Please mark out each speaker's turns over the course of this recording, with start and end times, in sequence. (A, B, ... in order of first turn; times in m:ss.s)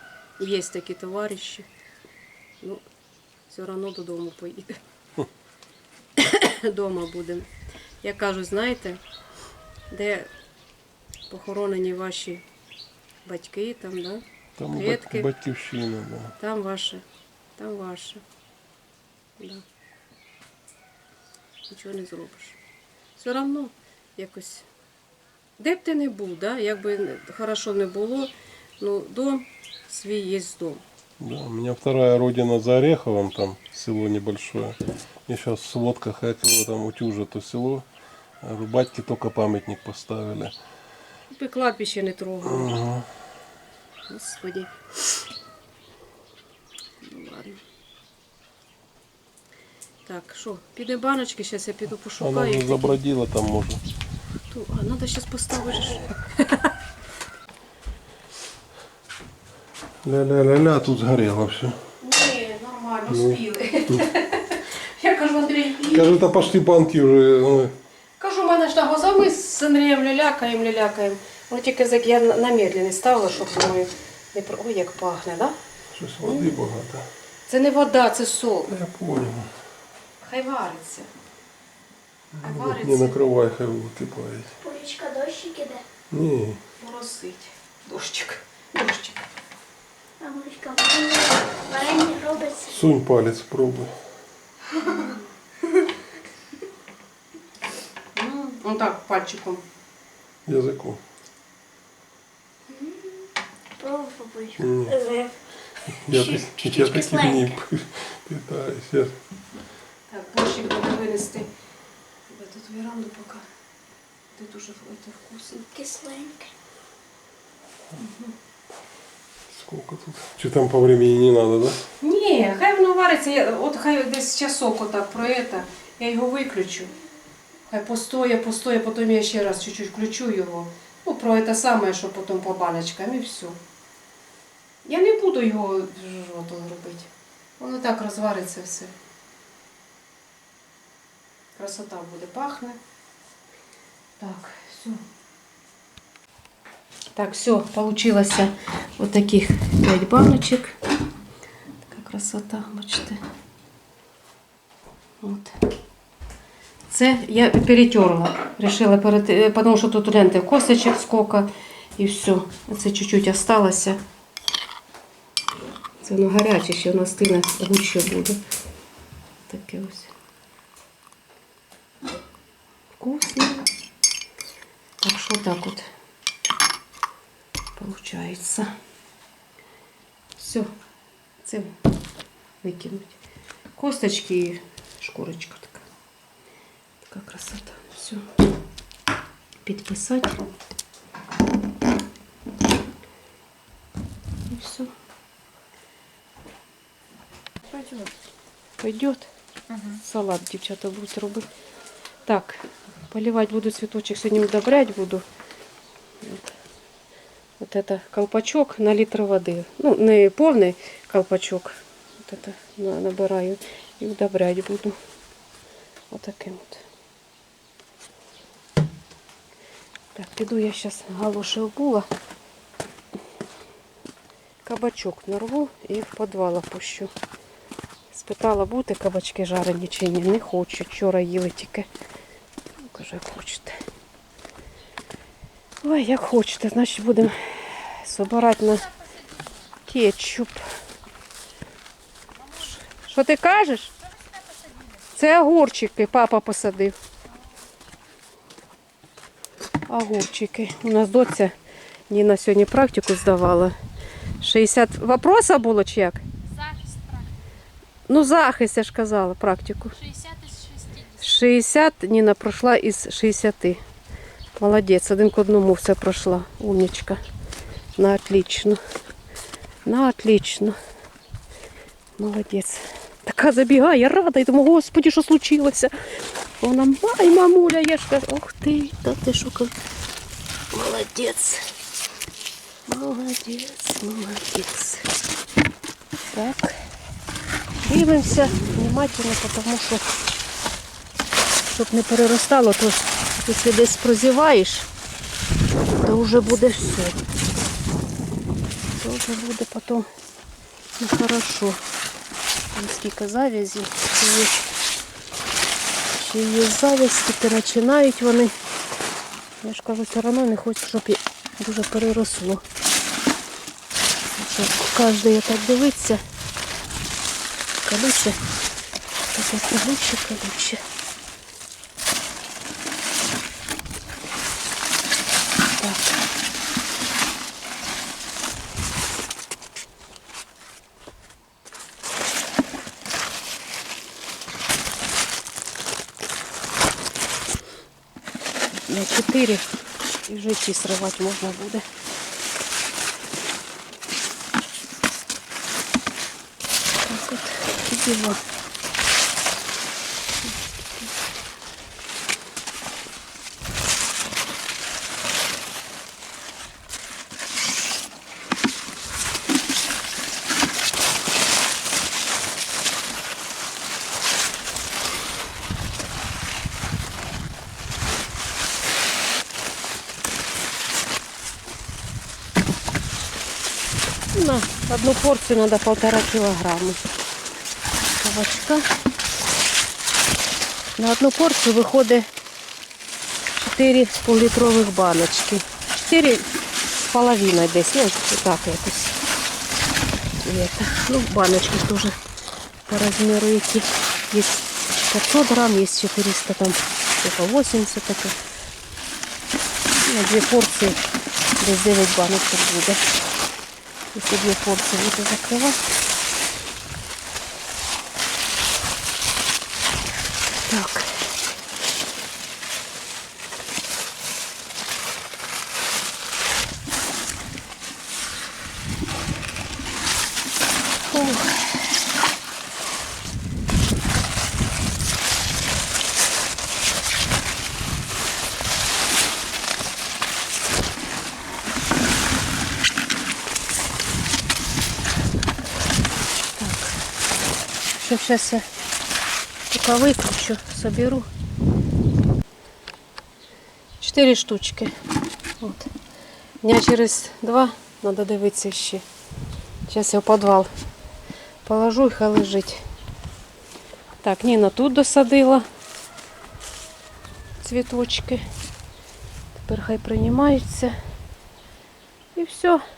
0:00.4-0:01.7 A
0:03.5-0:04.8 A
0:06.2-0:07.5 A
0:08.0-0:09.0 A
0:09.9-0:10.3 A
0:11.3-0:12.4 A
0:13.2-0:15.3 A
0:14.6-0:16.3 B
0:16.4-0:17.0 A
0:17.6-0:18.2 A
0:19.4-0:19.6 A
0:21.7-0:22.6 A
0:23.2-0:24.7 A
0:25.6-0:30.8 A
0:31.2-0:37.9 B
0:38.4-0:40.6 B
0:41.3-0:42.8 A
0:42.4-0:43.1 B
0:44.1-0:44.7 A
0:47.0-0:47.6 A
0:50.1-0:53.0 A
0:52.2-0:53.8 B
0:54.5-0:56.7 A
1:00.0-1:01.8 B
1:02.0-1:06.2 A
1:03.1-1:04.0 B
1:05.9-1:07.8 B
1:08.2-1:15.6 A
1:15.9-1:17.1 B
1:16.2-1:16.6 A
1:17.5-1:18.7 A
1:18.7-1:19.5 B
1:20.2-1:21.1 A
1:22.3-1:24.6 B
1:22.4-1:23.2 A
1:24.6-1:25.8 C
1:26.1-1:26.6 B
1:26.8-1:29.3 A
1:30.2-1:32.8 C
1:32.7-1:33.9 B
1:34.8-1:35.1 C
1:38.2-1:39.6 A
1:40.5-1:41.0 B
1:42.7-1:43.3 C
1:43.8-1:47.5 C
1:44.6-1:45.0 B
1:46.0-1:49.2 B
1:50.1-1:51.5 A
1:52.3-1:53.4 A
1:54.4-1:55.7 A
1:55.7-1:56.5 C
1:58.0-1:58.3 A
1:59.5-2:01.8 B
2:02.0-2:06.9 A
2:07.7-2:13.6 A
2:14.8-2:18.9 A
2:21.6-2:22.8 A
2:24.2-2:25.0 A
2:27.2-2:30.8 A
2:31.9-2:33.2 A
2:35.2-2:35.5 A
2:36.9-2:44.0 A
2:46.0-2:48.4 A
2:49.5-2:50.1 A
2:53.0-2:53.7 A
2:55.0-2:55.9 A
2:57.8-2:58.7 A
3:00.4-3:00.7 A
3:01.4-3:01.7 A
3:02.6-3:03.2 A
3:03.8-3:05.8 A
3:07.0-3:08.2 A
3:09.6-3:10.4 A
3:14.5-3:14.9 A
3:17.7-3:18.1 A
3:18.8-3:21.5 A
3:22.3-3:25.2 A
3:26.2-3:26.5 A
3:27.6-3:35.0 A
3:36.1-3:36.8 A
3:40.2-3:42.1 A
3:44.6-3:47.1 A
3:48.1-3:51.9 A
3:52.8-3:53.8 A
3:55.8-3:58.9 A
3:59.8-4:00.6 A
4:02.8-4:03.9 A
4:05.1-4:07.0 A
4:09.9-4:11.5 A
4:12.1-4:13.7 A
4:14.4-4:16.2 A
4:18.1-4:20.0 A
4:21.2-4:23.8 A
4:24.6-4:27.2 A
4:28.0-4:28.8 A
4:29.9-4:30.8 A
4:32.2-4:35.9 A
4:36.6-4:39.8 A
4:40.7-4:41.6 A
4:42.9-4:45.1 A
4:46.3-4:46.8 A
4:47.8-4:50.1 A
4:51.7-4:54.9 A
4:56.0-4:57.2 A
4:59.0-5:00.1 A
5:01.0-5:01.8 A
5:02.8-5:04.7 A
5:06.1-5:08.5 A
5:09.6-5:12.6 A
5:14.3-5:16.2 A
5:17.8-5:18.4 A
5:19.3-5:20.8 A
5:25.8-5:26.0 A
5:38.9-5:39.6 A
5:40.3-5:41.9 A
5:47.0-5:48.4 A
5:50.4-5:51.1 A
6:14.3-6:17.0 A
6:18.2-6:18.8 A
6:21.0-6:22.3 A
6:23.6-6:26.5 A
6:27.0-6:29.2 A
6:30.4-6:32.1 A
6:32.9-6:38.4 A
6:40.1-6:41.0 A
6:41.6-6:43.0 A
6:44.1-6:45.8 A
6:50.7-6:51.2 A
7:01.1-7:01.6 A
7:16.6-7:17.0 A
7:18.0-7:18.7 A
7:19.7-7:21.3 A
7:24.0-7:24.9 A
7:25.6-7:25.9 A
7:26.6-7:29.0 A
7:29.9-7:30.7 A
7:31.6-7:32.8 A
7:34.2-7:35.6 A
7:37.6-7:38.4 A
7:39.6-7:40.9 A
7:42.4-7:42.8 A